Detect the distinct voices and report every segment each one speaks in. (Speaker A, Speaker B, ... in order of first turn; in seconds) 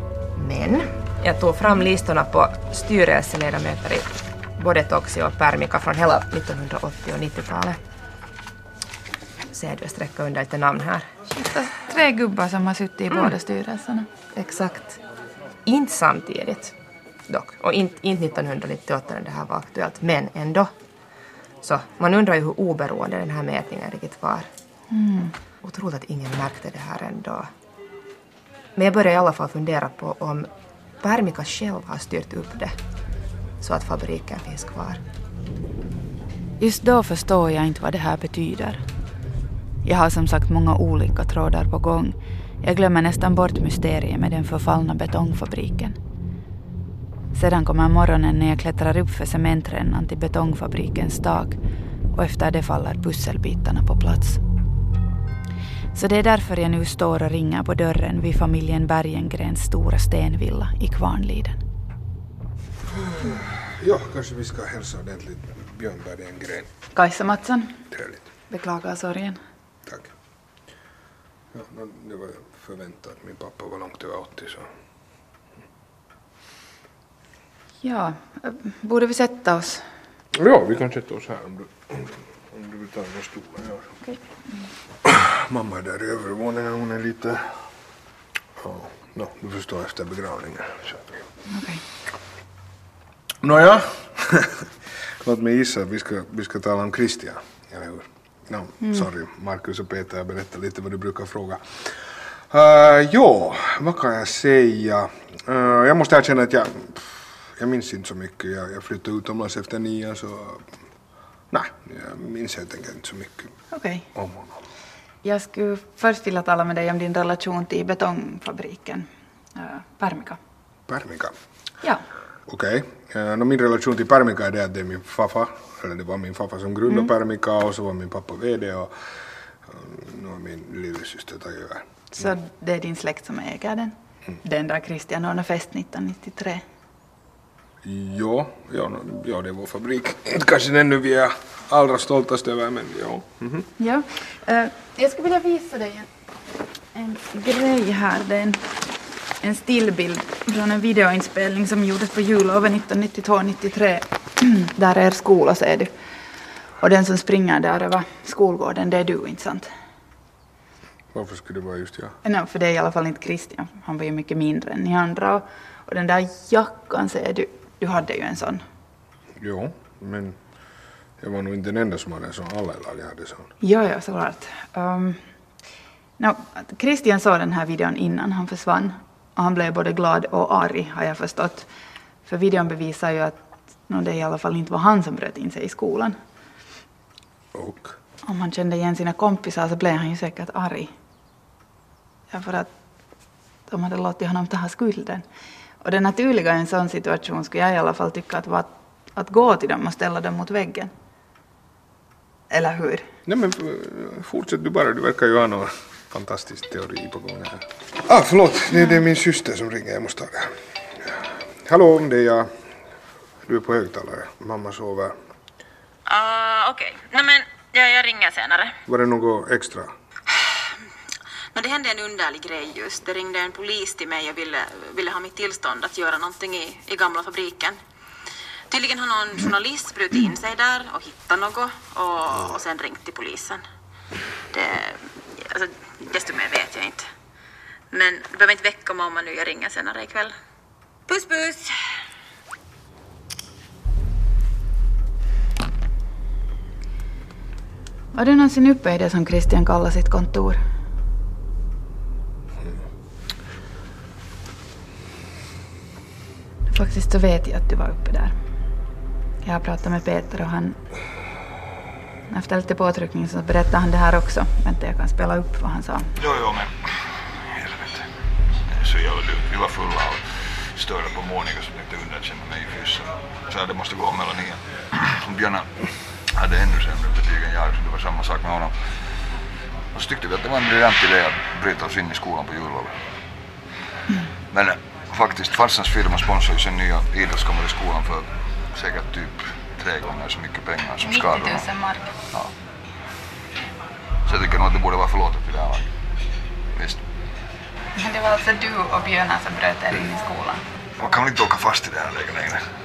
Speaker A: 0.3-7.8, 9.5-11.1, 14.3-15.0, 15.6-16.7, 17.3-20.7, 21.6-24.5, 25.6-27.5, 28.8-30.5, 31.0-32.7, 33.6-35.0
Speaker B: 11.3-14.1, 24.9-25.3, 36.6-38.8, 39.8-46.0, 47.3-51.6, 52.1-54.4, 55.9-61.6, 66.9-67.7, 68.5-69.4, 77.8-79.8, 91.5-91.8, 98.8-99.1, 113.7-114.0, 115.2-120.4, 132.1-136.6, 143.8-146.1, 146.9-148.7, 149.4-155.9, 156.8-159.7, 162.2-168.6, 173.6-175.2, 176.2-181.7, 182.2-186.2, 188.2-190.9, 192.3-192.7, 193.7-195.2, 195.8-200.9, 202.5-203.1, 248.1-250.6, 256.7-258.4, 259.4-260.8, 262.3-266.1, 291.0-292.1, 297.9-300.6
Speaker C: 62.9-66.7, 67.9-68.2, 69.8-70.1, 71.5-74.7, 80.3-84.0, 85.0-87.6, 88.6-91.2, 93.4-110.7, 111.5-113.5, 114.1-114.6, 120.9-121.3, 122.5-129.1, 129.6-132.3, 137.8-143.7, 161.1-162.2, 169.4-170.4, 171.2-173.5, 187.5-188.0, 203.2-212.5, 213.4-215.2, 218.9-219.9
Speaker D: 216.1-218.8, 221.5-227.8, 228.7-233.6, 234.5-237.1, 237.9-240.3, 241.1-241.7
Speaker E: 266.2-268.1, 268.7-278.7, 279.9-282.9, 284.5-291.7, 294.2-295.9, 296.7-297.0, 301.0-302.6